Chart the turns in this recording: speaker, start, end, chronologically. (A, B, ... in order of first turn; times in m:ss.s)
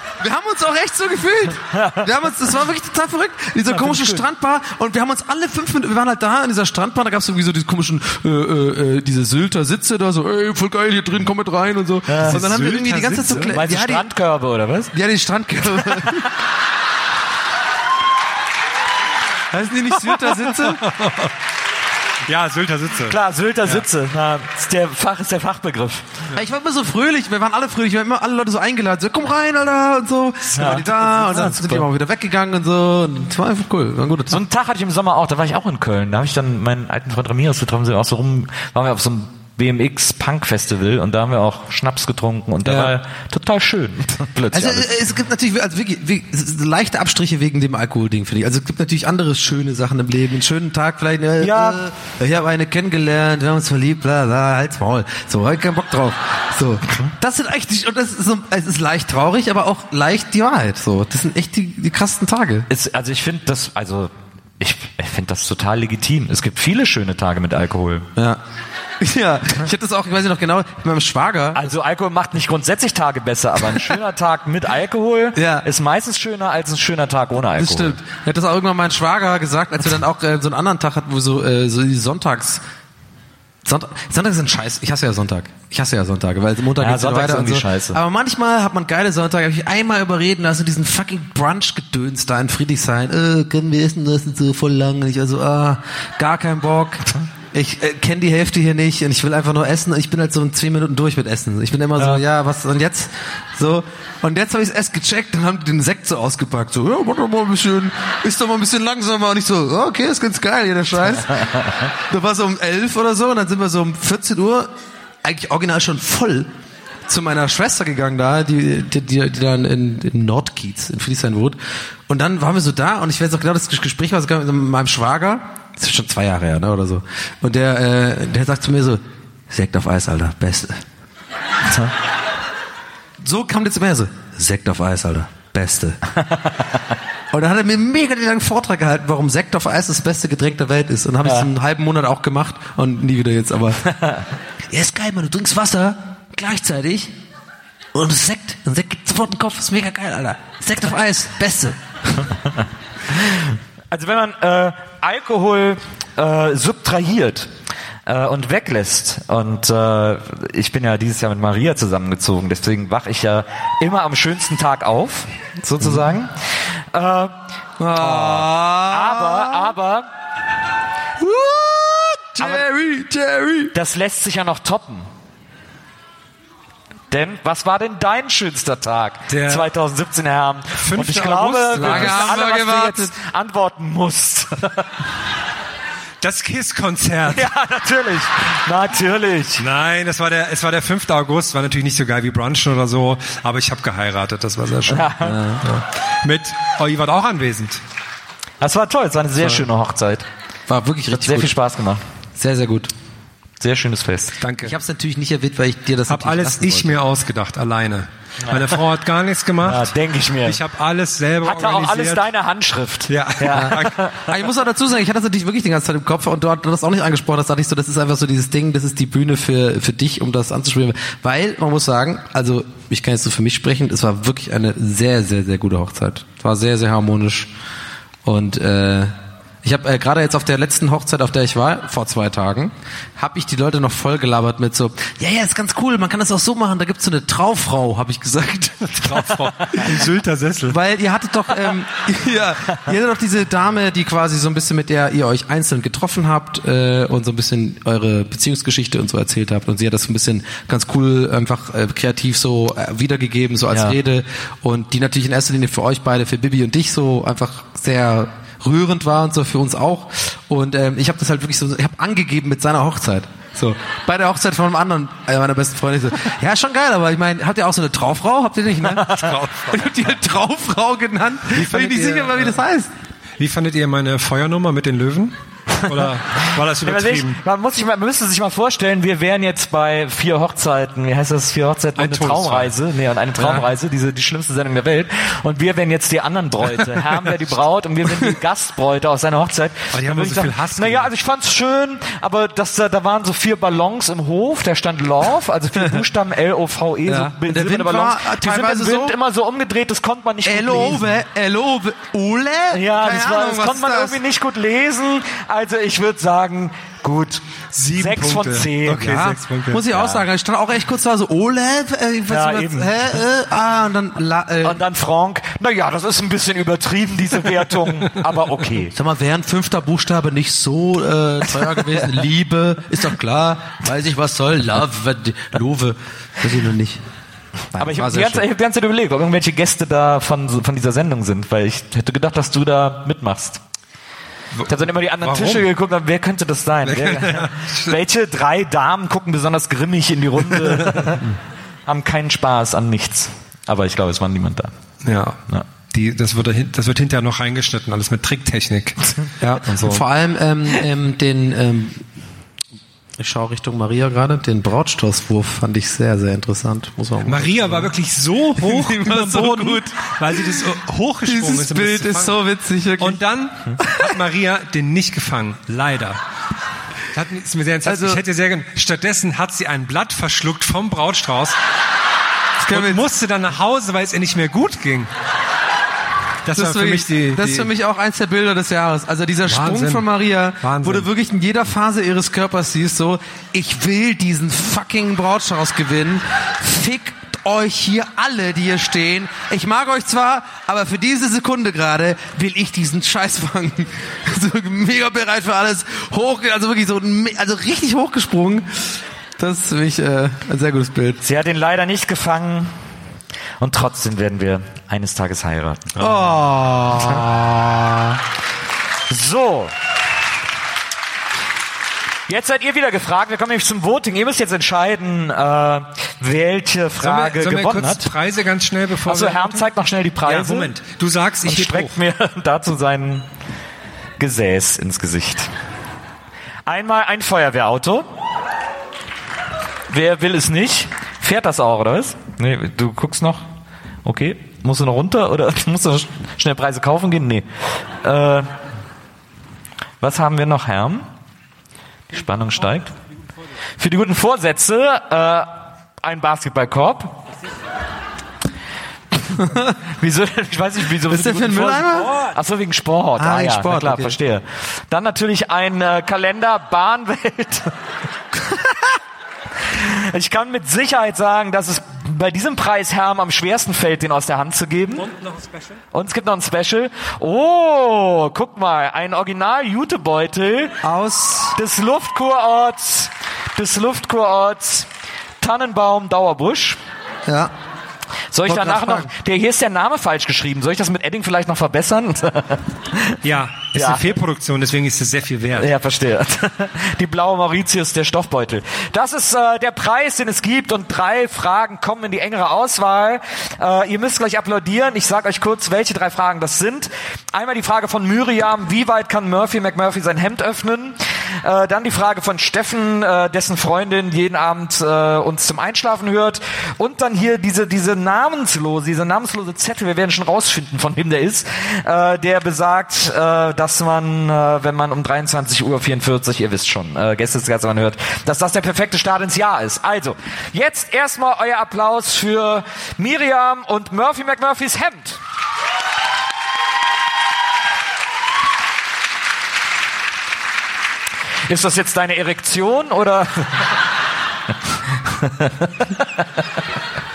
0:00.2-0:14.0 A
0:01.7-0:02.0 B
0:03.7-0:04.2 B
0:12.1-0:12.4 B
0:12.2-0:13.6 C
0:13.4-0:14.9 B
0:14.9-0:16.2 A
0:19.5-0:20.8 A
0:20.0-0:21.3 C
0:22.3-0:23.8 C
0:23.1-0:26.0 B
0:26.4-0:34.4 A
0:30.6-0:31.5 C
0:30.6-0:31.9 B
0:34.3-0:44.9 B
0:42.6-0:43.0 A
0:44.5-1:02.7 A
0:51.4-0:51.8 B
1:02.7-1:08.1 B
1:09.0-1:11.6 A
1:11.5-1:18.0 B
1:15.4-1:15.7 A
1:17.6-1:22.6 A
1:23.6-1:37.0 A
1:26.8-1:28.0 B
1:37.5-1:51.3 A
1:42.0-1:42.2 B
1:52.1-1:54.7 A
1:55.2-1:56.5 A
1:57.1-2:01.6 A
2:02.1-2:09.0 A
2:09.5-2:10.8 A
2:13.2-2:16.0 A
2:17.3-2:23.8 A
2:21.2-2:21.5 B
2:23.9-2:24.2 B
2:24.7-2:27.1 A
2:28.0-2:31.8 A
2:33.1-2:37.5 B
2:38.1-2:47.3 B
2:47.8-2:49.7 A
2:48.0-2:50.1 B
2:51.2-2:53.7 A
2:52.4-2:52.6 B
2:53.7-2:55.1 B
2:57.1-3:04.9 B
2:59.3-2:59.7 C
3:00.8-3:02.4 C
3:01.8-3:03.1 A
3:06.2-3:07.5 C
3:07.3-3:09.6 B
3:09.6-3:15.1 C
3:14.9-3:15.4 B
3:15.2-3:15.6 A
3:15.6-3:17.8 C
3:18.6-3:20.3 B
3:20.7-3:21.5 A
3:21.1-3:22.0 B
3:22.4-3:22.9 A
3:23.6-3:24.3 B
3:24.4-3:24.7 C
3:24.6-3:27.0 A
3:26.1-3:32.3 C
3:28.4-3:28.8 B
3:29.7-3:30.6 B
3:31.4-3:34.2 B
3:33.1-3:34.3 C
3:34.3-3:47.5 A
3:48.2-3:49.1 A
3:49.6-3:58.9 A
3:58.9-4:00.8 C
3:59.5-3:59.9 B
4:00.7-4:29.0 A
4:13.7-4:14.0 B
4:28.9-4:29.4 B
4:29.2-4:30.0 C
4:29.7-4:32.9 A
4:31.5-4:32.6 C
4:33.4-4:37.4 C
4:35.7-4:36.1 B
4:36.8-5:01.0 B
4:42.0-4:42.8 C
4:43.4-4:43.7 C
4:49.9-4:51.1 C
4:57.1-4:59.2 A
5:00.5-5:04.2 A
5:02.7-5:07.4 B
5:07.7-5:09.8 C
5:08.0-5:09.2 B
5:09.0-5:14.8 A
5:09.9-5:10.2 B
5:12.3-5:13.2 B
5:14.6-5:18.9 B
5:19.0-5:27.0 A
5:27.7-5:28.4 A
5:27.8-5:33.6 B
5:34.6-5:35.7 C
5:34.7-5:41.3 B
5:36.8-5:38.0 C
5:40.8-5:41.2 C
5:41.9-5:44.7 B
5:45.0-5:45.4 C
5:45.9-5:49.0 C
5:49.4-5:52.0 A
5:49.6-5:50.0 C
5:53.2-5:57.9 A
5:57.2-6:02.4 C
5:58.6-5:59.8 A
6:00.4-6:00.7 A
6:01.3-6:03.2 A
6:03.0-6:06.2 C
6:07.1-6:11.6 C
6:07.9-6:08.2 A
6:12.6-6:13.0 A
6:12.7-6:15.1 C
6:16.5-6:17.7 C
6:16.5-6:38.7 A
6:19.5-6:20.1 C
6:20.6-6:21.1 C
6:39.4-6:41.2 A
6:41.2-6:42.7 B
6:43.6-6:46.0 B
6:46.0-6:46.4 C
6:46.0-6:47.8 A
6:49.1-6:49.7 B
6:52.3-6:58.1 B
6:57.0-7:01.9 C
6:59.1-7:00.7 B
7:01.4-7:03.3 B
7:04.2-7:05.5 B
7:06.7-7:08.1 B
7:09.9-7:13.5 B
7:14.0-7:17.5 B
7:18.0-7:18.5 B
7:20.0-7:21.1 B
7:22.1-7:22.9 B
7:23.8-7:27.2 B
7:29.9-7:37.7 B
7:31.1-7:32.2 A
7:33.2-7:34.2 A
7:39.7-7:45.1 B
7:45.1-7:45.7 C
7:45.9-7:50.8 B
7:50.8-7:51.6 A
7:51.6-7:54.9 B
7:55.4-7:56.8 B
7:58.3-8:03.2 B
7:58.4-7:59.1 A
8:03.2-8:05.7 C
8:03.7-8:04.0 B
8:05.6-8:45.2 B
8:51.5-8:53.6 B
8:55.1-8:56.2 B